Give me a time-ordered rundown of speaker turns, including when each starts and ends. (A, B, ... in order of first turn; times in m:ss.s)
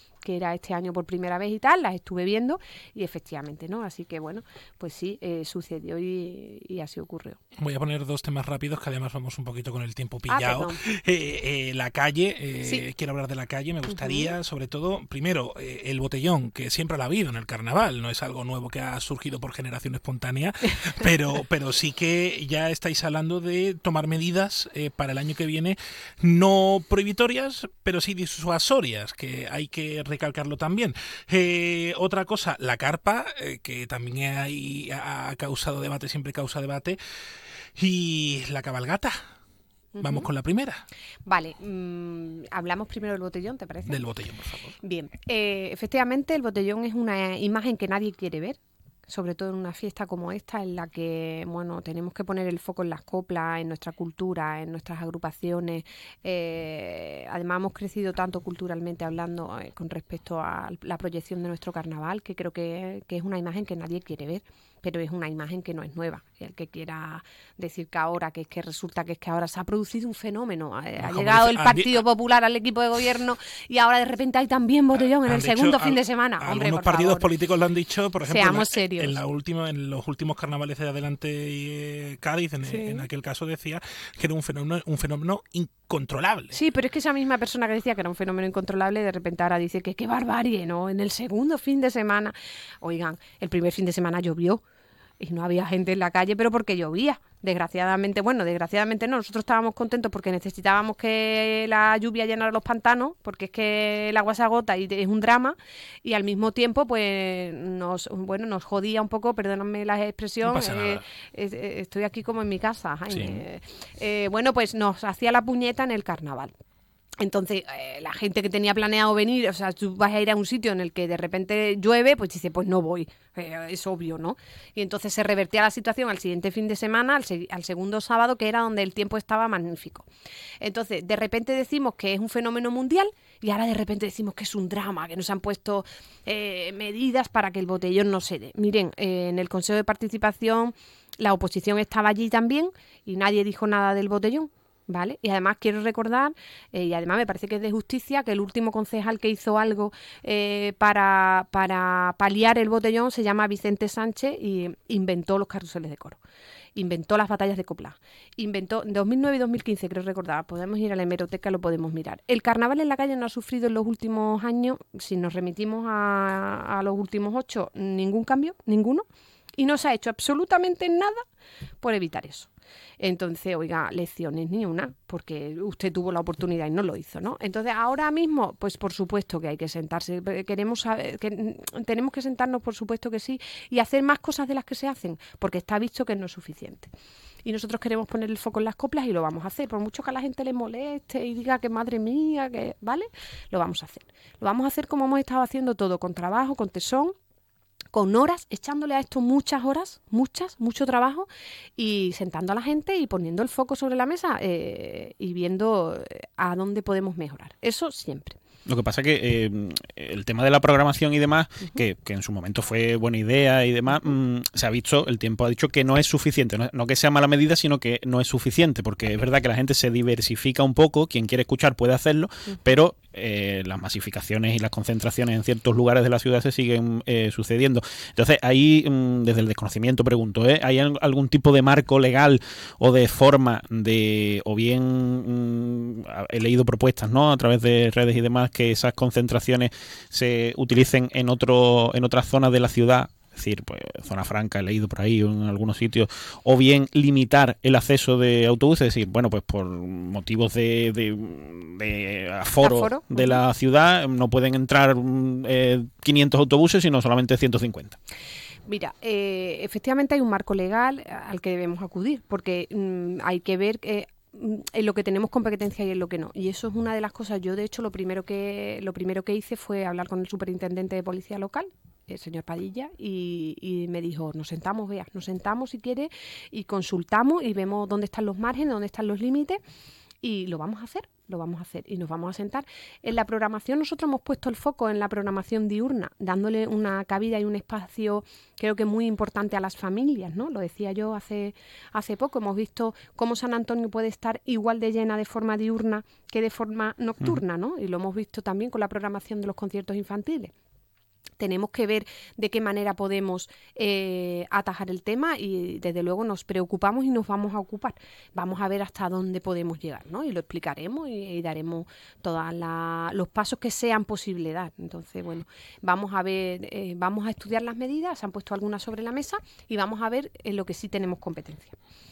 0:00.2-0:07.4 A
0:07.6-0:37.0 B
0:10.3-0:10.8 A
0:13.9-0:14.3 A
0:37.8-0:39.2 B
0:40.0-0:40.3 A
0:40.0-0:40.8 B
0:41.3-0:44.0 A
0:43.8-0:44.8 B
0:44.8-1:17.3 A
1:11.0-1:12.0 B
1:15.0-1:26.6 B
1:18.3-1:19.2 A
1:22.6-1:23.0 A
1:26.5-1:34.6 A
1:35.2-1:56.5 A
1:50.4-1:51.0 B
1:53.1-1:53.4 B
1:57.2-2:10.1 A
2:10.6-2:36.2 A
2:36.8-2:49.0 A
2:49.6-2:51.2 A
2:51.8-3:06.9 A
3:07.4-3:17.1 A
3:17.9-3:21.3 A
3:21.8-3:28.4 A
3:28.6-4:18.0 C
4:12.6-4:13.4 A
4:18.7-4:39.6 A
4:40.2-5:00.5 A
5:01.4-5:21.8 A